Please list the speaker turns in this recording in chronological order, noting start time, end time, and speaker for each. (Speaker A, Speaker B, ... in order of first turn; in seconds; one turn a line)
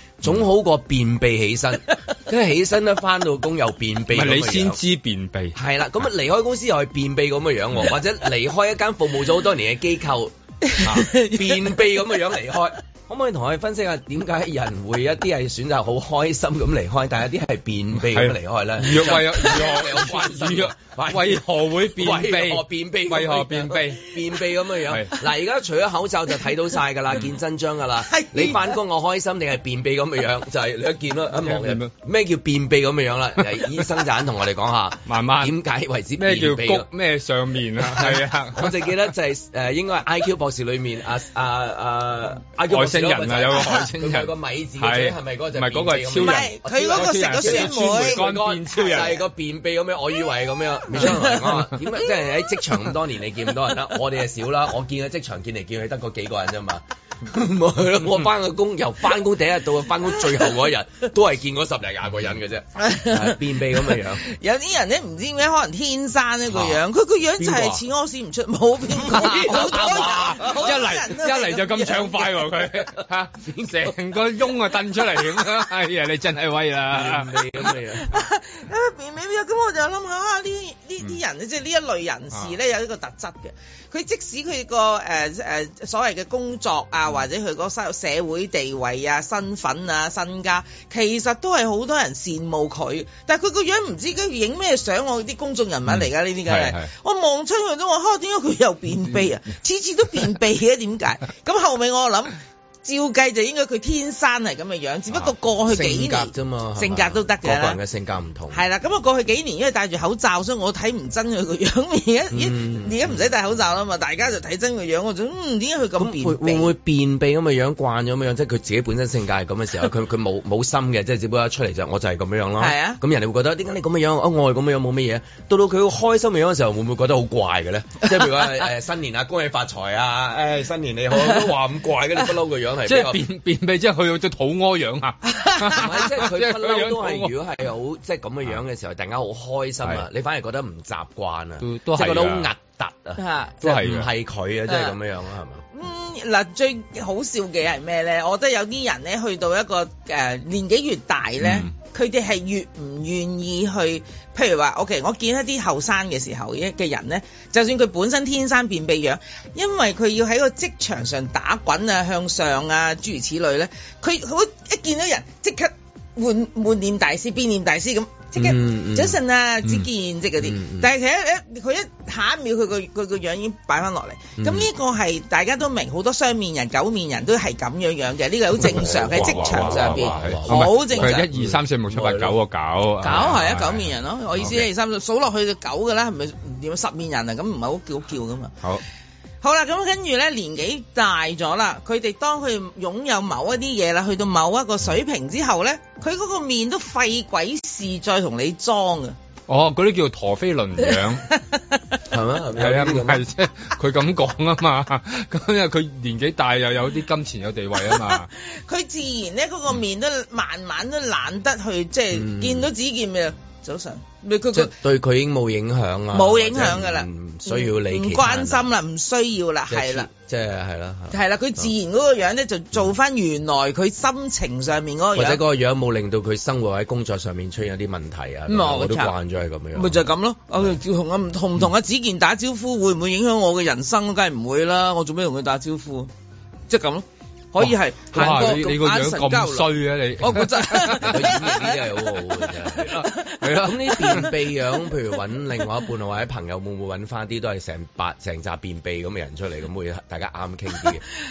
Speaker A: 0.2-4.8
Speaker B: 4.1-5.5
Speaker A: 5.5-36.9
Speaker C: 10.7-11.8
Speaker B: 18.0-24.1
Speaker B: 24.9-25.2
Speaker C: 28.1-28.8
Speaker B: 31.4-31.9
Speaker B: 33.5-33.8
Speaker B: 35.0-35.5
Speaker B: 36.2-38.9
Speaker A: 37.9-64.2
Speaker B: 42.7-49.2
Speaker C: 46.1-48.2
Speaker B: 51.0-51.7
Speaker C: 62.8-72.4
Speaker A: 67.4-67.8
Speaker A: 69.0-70.6
Speaker B: 69.5-77.5
Speaker A: 76.9-78.2
Speaker C: 77.9-107.8
Speaker B: 95.9-96.9
Speaker A: 105.7-108.6
Speaker C: 108.5-116.7
Speaker A: 112.3-113.2
Speaker A: 116.0-133.2
Speaker C: 122.6-123.0
Speaker B: 132.8-137.3
Speaker C: 135.3-135.8
Speaker A: 135.8-145.6
Speaker B: 141.6-142.5
Speaker C: 143.2-143.6
Speaker B: 143.6-144.1
Speaker C: 144.7-144.9
Speaker C: 145.7-181.2
Speaker B: 151.4-151.7
Speaker A: 168.3-169.2
Speaker A: 170.4-170.9
Speaker A: 174.4-174.7
Speaker A: 178.6-182.3
Speaker B: 178.6-183.8
Speaker C: 183.0-188.5
Speaker B: 184.4-184.7
Speaker C: 189.4-199.2
Speaker B: 199.5-201.3
Speaker C: 201.0-201.6
Speaker A: 202.1-203.2
Speaker B: 202.6-208.3
Speaker C: 207.9-214.7
Speaker A: 212.1-212.7
Speaker A: 214.5-218.7
Speaker C: 216.1-220.1
Speaker A: 219.7-221.7
Speaker C: 221.1-225.4
Speaker A: 225.1-230.0
Speaker C: 228.5-229.1
Speaker C: 229.7-236.1
Speaker C: 236.7-242.3
Speaker B: 237.6-241.4
Speaker A: 241.0-243.0
Speaker B: 242.8-244.3
Speaker C: 242.8-243.5
Speaker A: 243.6-251.0
Speaker C: 244.0-244.3